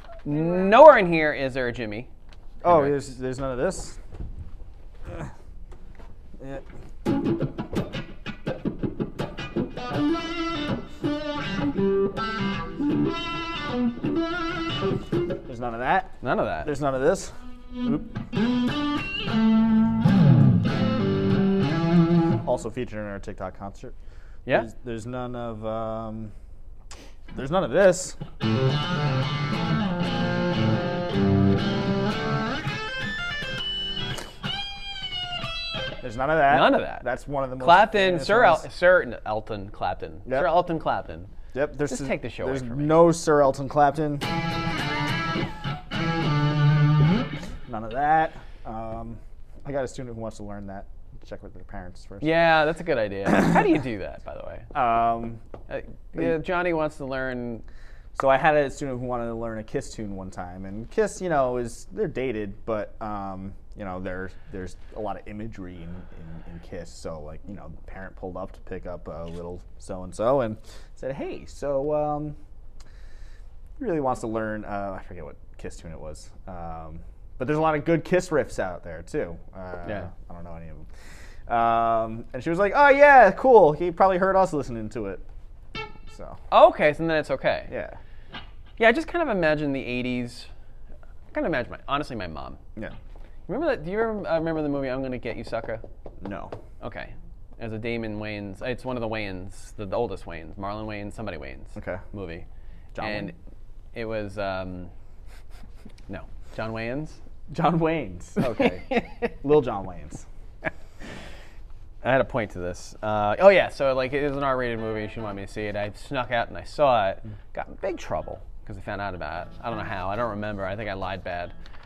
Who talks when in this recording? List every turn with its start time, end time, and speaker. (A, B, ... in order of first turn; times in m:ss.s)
0:00.2-0:02.1 A
0:02.6-0:04.0 B
0:02.6-0:03.1 A
0:06.4-0:06.6 B
0:15.4-0:18.1 B
0:16.2-0:16.7 A
0:22.4-0:24.0 B
0:24.5-0:26.3 B
0:27.3-0:28.2 B
0:36.0-0:38.7 B
0:36.5-0:37.1 A
0:37.6-0:41.3 A
0:40.3-0:40.6 B
0:41.5-0:44.3 B
0:41.9-0:43.0 A
0:47.7-0:52.3 B
0:52.2-0:54.7 A
0:53.3-0:53.6 B
0:54.7-0:55.4 B
0:55.7-0:57.6 A
0:58.1-1:12.4 B
1:13.8-1:20.9 B
1:21.5-1:25.2 B
1:26.1-1:26.4 B
1:26.5-1:27.7 A
1:27.7-1:28.0 B
1:28.8-1:30.5 A
1:31.3-1:32.6 A
1:33.5-1:35.8 A
1:36.2-1:36.6 B
1:36.8-1:42.4 A
1:41.8-1:42.0 B
1:43.0-1:43.3 B
1:43.0-1:43.4 A
1:43.9-1:44.9 A
1:46.1-1:47.2 A
1:47.5-1:50.3 B
1:48.5-1:49.3 A
1:52.0-2:01.5 A